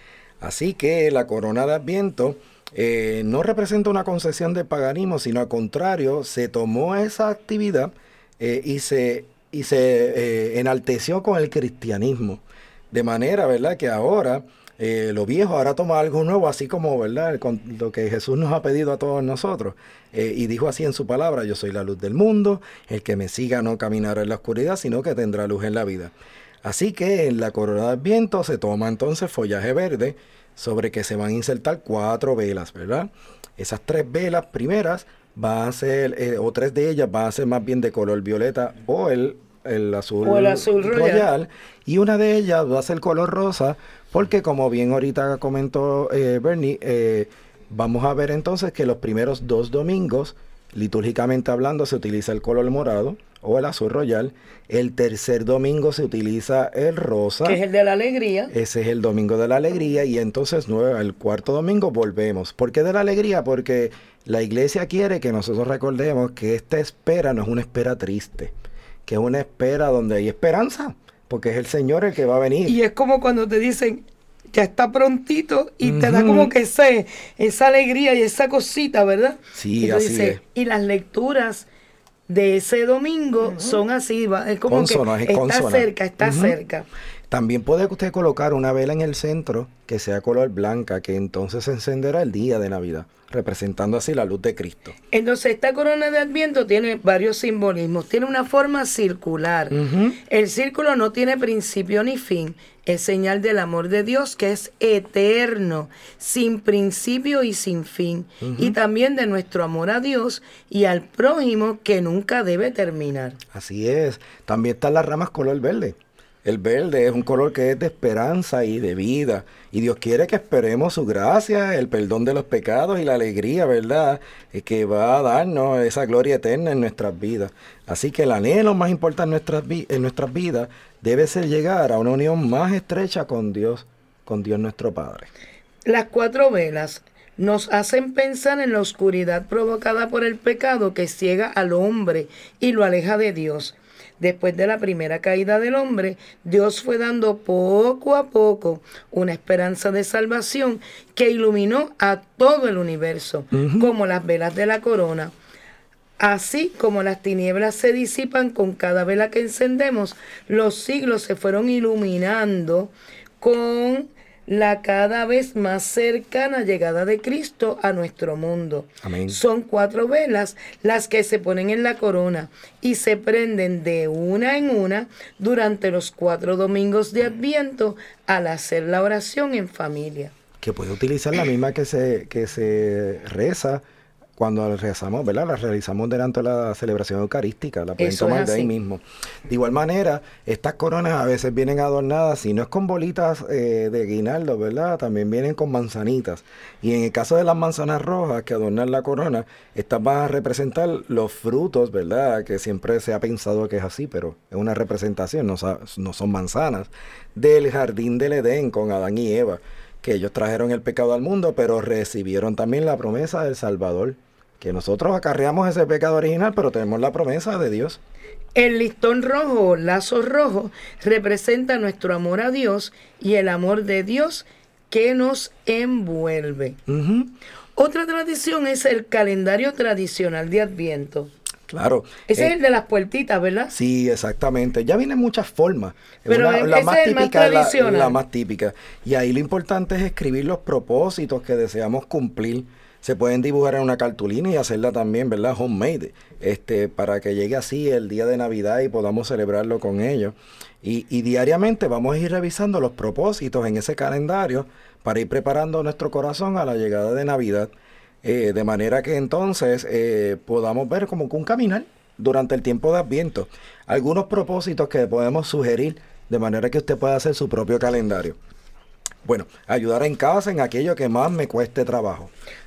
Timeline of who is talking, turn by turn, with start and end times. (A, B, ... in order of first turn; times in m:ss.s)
0:00.4-0:57.6 A
0:40.2-0:41.3 B
0:57.4-0:58.5 B
0:58.5-1:08.5 A
1:09.0-1:12.8 A
1:12.6-1:21.7 B
1:15.8-1:16.5 A
1:19.5-1:20.4 A
1:22.3-1:26.9 B
1:24.7-1:26.6 A
1:27.3-1:34.9 A
1:35.1-1:53.4 B
1:39.7-1:40.2 A
1:48.4-1:48.8 A
1:53.5-2:15.3 A
2:15.8-2:35.3 B
2:33.5-2:33.9 A
2:36.2-3:00.3 B
2:49.0-2:49.4 A
3:00.6-3:03.8 A
3:04.4-3:38.0 A
3:08.0-3:08.7 B
3:38.5-3:46.8 B
3:46.9-3:47.3 A
3:47.8-3:51.3 B
3:51.7-3:52.5 A
3:52.3-3:53.7 B
3:53.7-4:17.7 A
3:56.3-3:58.2 B
4:18.2-4:28.4 A
4:29.2-4:32.3 A